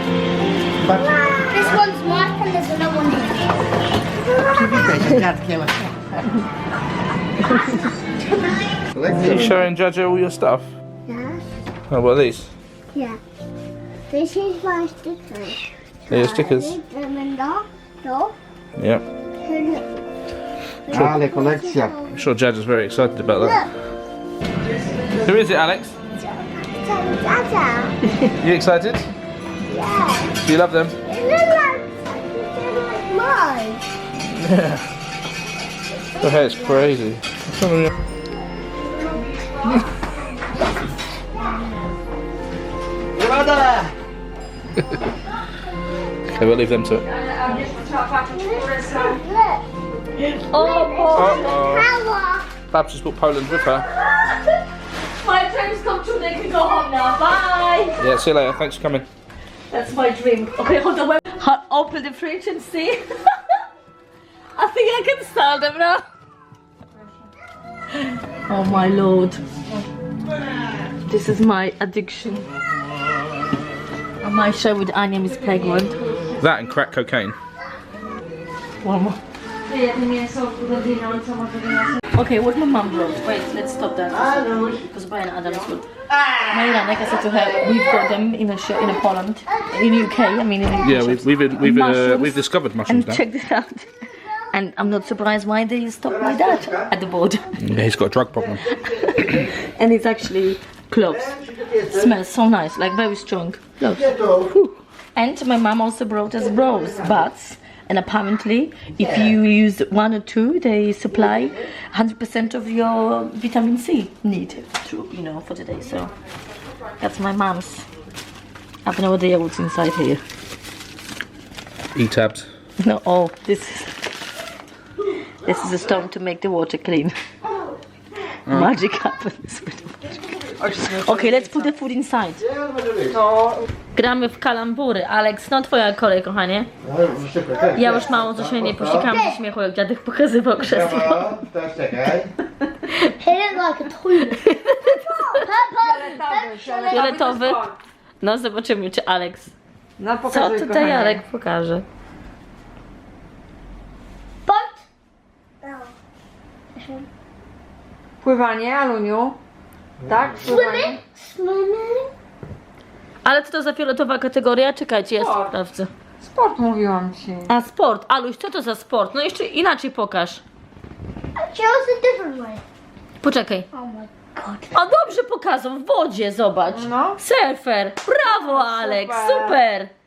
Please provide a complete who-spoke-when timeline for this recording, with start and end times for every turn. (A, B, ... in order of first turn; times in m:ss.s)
0:00.9-0:03.7 A
0:04.5-0:05.1 A
0:07.5-0:08.6 A
0:09.0-0:09.4 B
0:09.1-0:10.7 C
0:09.2-0:09.5 D
0:11.1-0:11.4 A
0:11.9-0:12.5 C
0:12.9-0:13.2 A
0:14.1-0:18.4 A
0:16.1-0:16.8 C
0:18.8-0:19.0 C
0:19.4-0:19.9 A
0:20.9-0:22.2 A
0:20.9-0:21.2 C
0:20.9-0:21.9 B
0:22.1-0:23.7 C
0:23.4-0:23.7 A
0:25.2-0:26.0 C
0:26.2-0:28.0 A
0:28.4-0:29.1 C
0:29.7-0:30.4 A
0:30.4-0:31.0 C
0:31.1-0:33.8 A
0:34.3-0:34.8 C
0:36.2-0:36.9 A
0:36.2-0:37.9 C
0:43.4-0:43.7 C
0:46.3-0:47.0 C
0:47.1-0:49.1 E
0:48.3-0:49.6 A
0:50.2-0:51.8 D
0:50.6-0:52.5 A
0:51.1-0:51.9 C
0:52.7-0:53.9 C
0:54.0-0:54.4 D
0:55.2-0:58.0 D
0:58.0-0:59.1 C
0:59.7-1:03.6 D
1:04.6-1:06.0 D
1:08.3-1:09.4 D
1:11.1-1:12.5 D
1:14.2-1:16.0 D
1:16.4-1:17.4 C
1:18.8-1:19.2 D
1:19.7-1:21.9 E
1:22.1-1:37.6 D
1:30.8-1:33.2 C
1:37.6-1:38.8 C
1:38.7-1:56.1 D
1:57.0-1:57.9 D
1:58.9-2:00.2 D
2:02.0-2:02.5 C
2:02.8-2:03.9 D
2:05.4-2:07.2 D
2:08.5-2:08.7 C
2:08.5-2:10.1 D
2:10.6-2:11.5 E
2:11.0-2:12.4 D
2:12.6-2:13.1 B
2:13.1-2:13.6 E
2:14.0-2:16.7 D
2:16.8-2:19.1 B
2:17.7-2:21.4 D
2:19.1-2:19.3 A
2:20.7-2:22.3 B
2:22.9-2:23.1 D
2:23.2-2:27.1 A
2:24.2-2:25.0 D
2:25.8-2:27.8 E
2:26.9-2:27.6 D
2:28.2-2:29.5 D
2:30.0-2:31.2 E
2:30.3-2:31.8 D
2:34.5-2:34.8 A
2:35.6-2:35.9 A
2:36.8-2:37.1 A
2:38.2-2:39.4 E
2:40.1-2:41.0 E
2:40.4-2:42.1 A
2:43.2-2:45.9 D
2:45.2-2:45.5 E
2:46.2-2:47.5 E
2:47.5-2:50.4 D
2:51.4-2:52.6 A
2:53.2-2:53.7 D
2:53.7-2:54.7 A
2:54.7-2:59.9 D
2:56.7-2:57.2 E
2:58.3-2:59.6 E